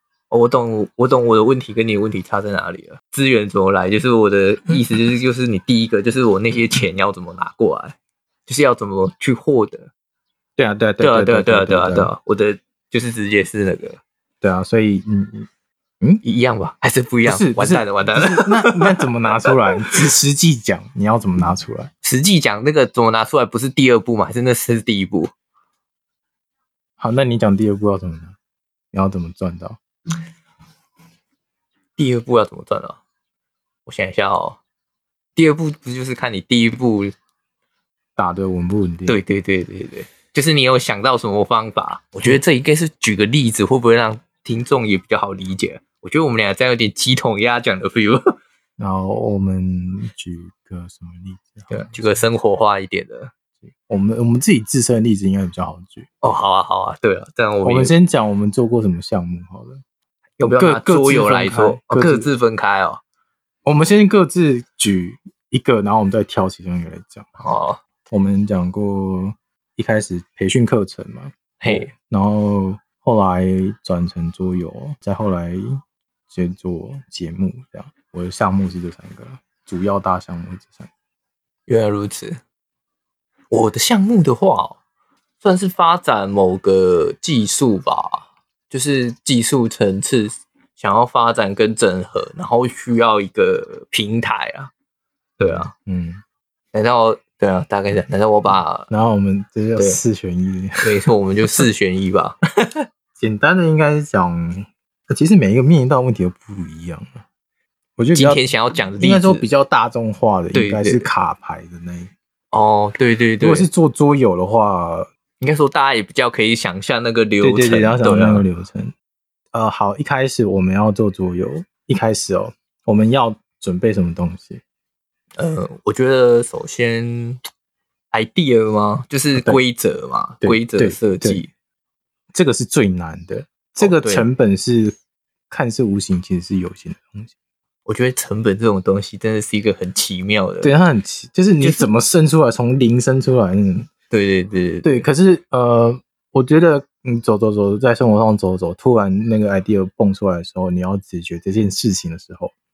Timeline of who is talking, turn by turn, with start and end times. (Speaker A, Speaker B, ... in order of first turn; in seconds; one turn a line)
Speaker A: 0.3-8.0
Speaker A: 8.5-9.9
Speaker B: 10.6-12.1
Speaker A: 11.0-14.0
Speaker B: 14.4-15.5
Speaker A: 16.2-19.9
Speaker B: 17.2-21.9
Speaker A: 22.0-25.3
Speaker B: 27.0-28.4
Speaker B: 28.9-29.8
Speaker A: 32.0-33.0
Speaker A: 33.9-34.6
Speaker A: 35.4-37.1
Speaker B: 38.1-39.2
Speaker A: 39.1-48.4
Speaker B: 48.8-52.2
Speaker A: 51.7-53.3
Speaker B: 53.9-56.1
Speaker A: 56.2-57.9
Speaker B: 57.6-59.8
Speaker A: 60.4-63.0
Speaker B: 60.4-62.3
Speaker B: 63.6-67.3
Speaker A: 67.4-67.8
Speaker B: 68.1-80.9
Speaker A: 71.6-71.9
Speaker A: 81.7-82.4
Speaker A: 83.5-84.8
Speaker A: 85.4-94.7
Speaker A: 95.4-95.7
Speaker B: 95.5-96.2
Speaker A: 96.7-98.9
Speaker B: 98.9-101.7
Speaker A: 100.8-102.8
Speaker B: 103.2-107.2
Speaker B: 108.0-108.4
Speaker A: 108.1-109.5
Speaker B: 109.0-112.1
Speaker A: 110.5-111.1
Speaker A: 112.5-113.7
Speaker B: 113.4-115.1
Speaker A: 115.4-118.5
Speaker B: 117.4-118.9
Speaker B: 119.5-124.6
Speaker A: 125.4-127.4
Speaker A: 128.1-131.5
Speaker B: 130.4-131.4
Speaker B: 132.3-134.9
Speaker A: 133.8-134.3
Speaker B: 135.5-137.3
Speaker A: 137.8-140.7
Speaker B: 140.6-143.9
Speaker A: 141.6-141.9
Speaker A: 144.1-145.1
Speaker B: 144.8-152.5